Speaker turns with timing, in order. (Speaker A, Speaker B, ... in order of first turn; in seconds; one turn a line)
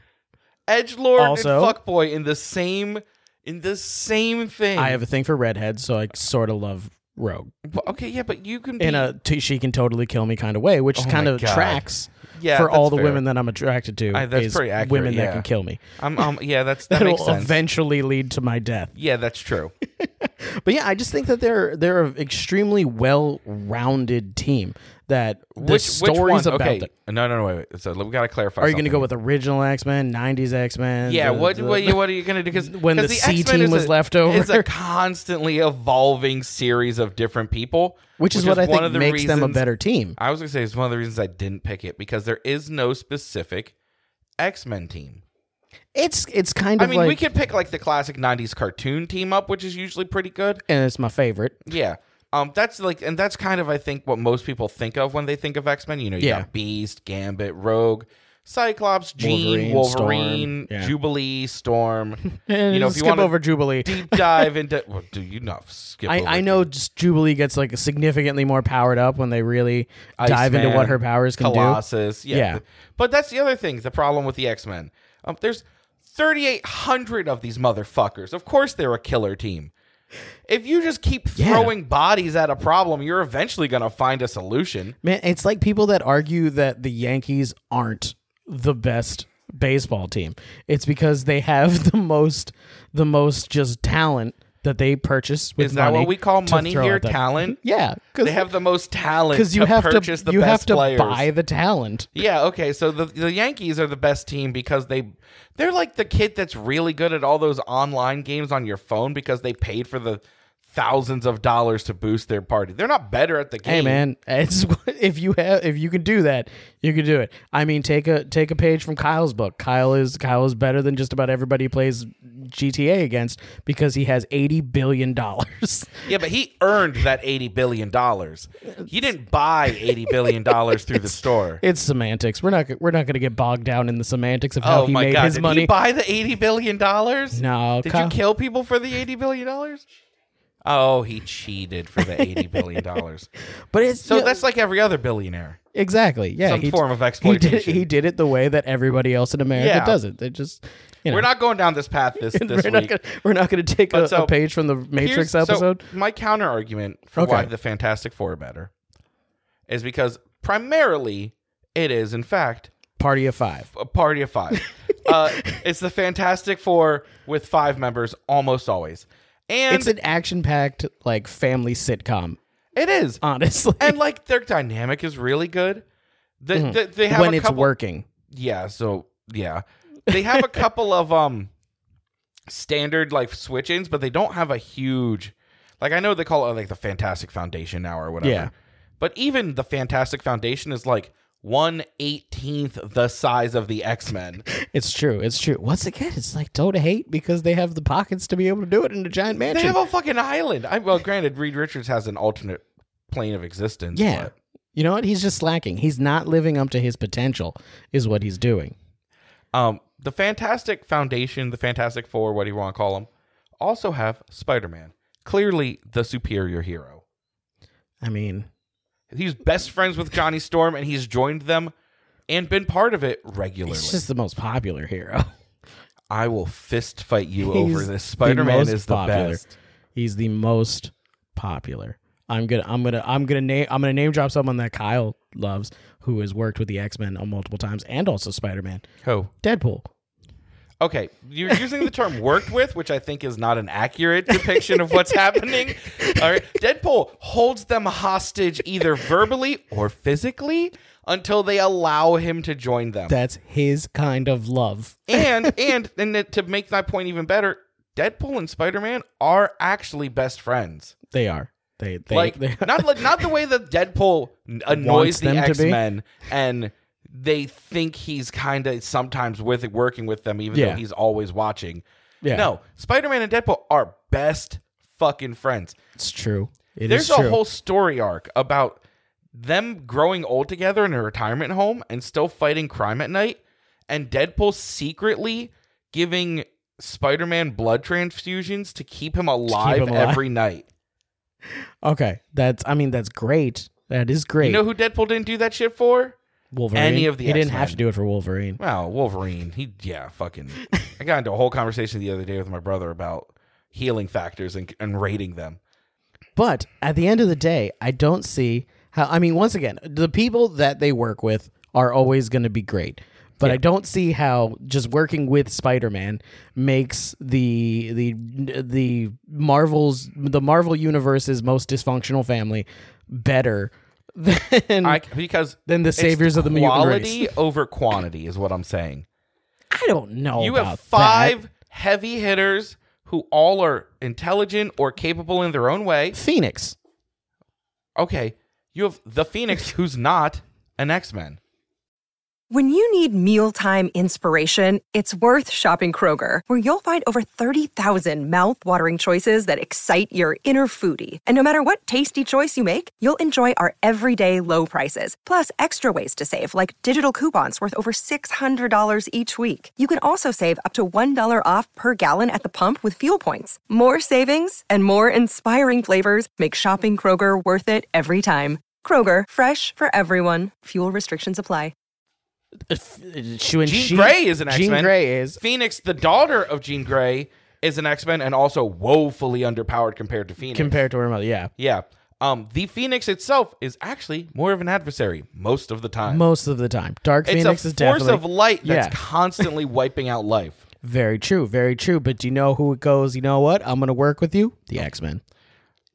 Speaker A: 0.7-5.0
Speaker B: 1.2-1.8
Speaker B: 4.8-7.5
Speaker A: 7.6-9.1
Speaker B: 8.8-16.3
Speaker A: 10.9-13.2
Speaker A: 14.1-15.5
Speaker A: 16.0-17.6
Speaker B: 16.9-18.9
Speaker A: 18.9-19.7
Speaker B: 20.0-26.9
Speaker A: 25.6-29.1
Speaker B: 28.6-34.7
Speaker A: 31.0-39.6
Speaker B: 38.2-40.2
Speaker A: 40.2-43.7
Speaker A: 44.4-45.2
Speaker B: 45.9-47.2
Speaker A: 46.8-50.6
Speaker B: 50.7-51.6
Speaker A: 51.6-66.7
Speaker B: 56.2-56.5
Speaker B: 59.2-60.9
Speaker B: 62.3-64.5
Speaker B: 66.0-72.6
Speaker A: 70.2-79.7
Speaker A: 80.5-85.0
Speaker B: 81.3-81.7
Speaker B: 85.0-98.5
Speaker A: 95.6-97.6
Speaker A: 98.2-101.3
Speaker B: 99.3-102.1
Speaker A: 102.1-114.0
Speaker B: 113.6-126.1
Speaker A: 126.0-131.6
Speaker B: 129.8-135.7
Speaker A: 134.6-139.8
Speaker B: 137.3-138.1
Speaker A: 140.6-143.3
Speaker B: 142.1-142.8
Speaker B: 143.7-144.3
Speaker A: 144.0-145.6
Speaker B: 145.7-151.3
Speaker A: 146.4-147.9
Speaker A: 149.5-150.0
Speaker A: 151.1-152.9
Speaker B: 152.3-155.8
Speaker A: 153.9-154.3
Speaker A: 154.9-158.7
Speaker B: 157.2-157.5
Speaker A: 159.7-162.7
Speaker B: 163.0-163.7
Speaker A: 163.7-169.9
Speaker B: 169.7-172.4
Speaker A: 172.7-173.2
Speaker B: 173.2-174.0
Speaker A: 173.8-175.8
Speaker A: 176.4-177.7
Speaker B: 176.5-178.0
Speaker A: 178.3-181.5
Speaker B: 180.3-180.6
Speaker A: 182.5-194.4
Speaker B: 188.2-188.5
Speaker B: 194.5-199.8
Speaker A: 199.5-204.3
Speaker B: 203.9-208.7
Speaker A: 209.5-217.0
Speaker B: 218.0-218.5
Speaker A: 219.1-221.7
Speaker A: 222.3-224.0
Speaker B: 223.7-225.3
Speaker A: 226.1-229.5
Speaker B: 227.4-229.4
Speaker B: 229.9-238.8
Speaker A: 239.0-239.3
Speaker B: 239.4-239.8
Speaker A: 240.8-253.1
Speaker B: 244.3-245.1
Speaker B: 245.8-246.3
Speaker B: 253.1-255.6
Speaker A: 255.1-260.9
Speaker B: 261.1-263.2
Speaker A: 262.1-275.8
Speaker B: 264.7-265.8
Speaker B: 270.5-270.8
Speaker B: 272.2-272.5
Speaker B: 276.0-277.4
Speaker A: 276.9-278.8
Speaker A: 279.3-290.7
Speaker B: 289.5-290.2
Speaker B: 291.8-294.6
Speaker A: 294.4-296.2
Speaker B: 296.5-298.6
Speaker A: 296.7-297.8
Speaker A: 298.6-305.6
Speaker B: 306.4-325.0
Speaker A: 324.8-329.1
Speaker B: 325.6-327.3
Speaker B: 329.7-331.4
Speaker A: 330.4-336.2
Speaker B: 336.1-336.8
Speaker A: 337.9-341.4
Speaker C: 342.5-371.7
Speaker B: 372.7-375.4
Speaker A: 373.6-380.8
Speaker B: 380.4-381.5
Speaker A: 381.6-386.2
Speaker B: 386.1-389.5
Speaker A: 387.2-390.6
Speaker B: 390.8-395.2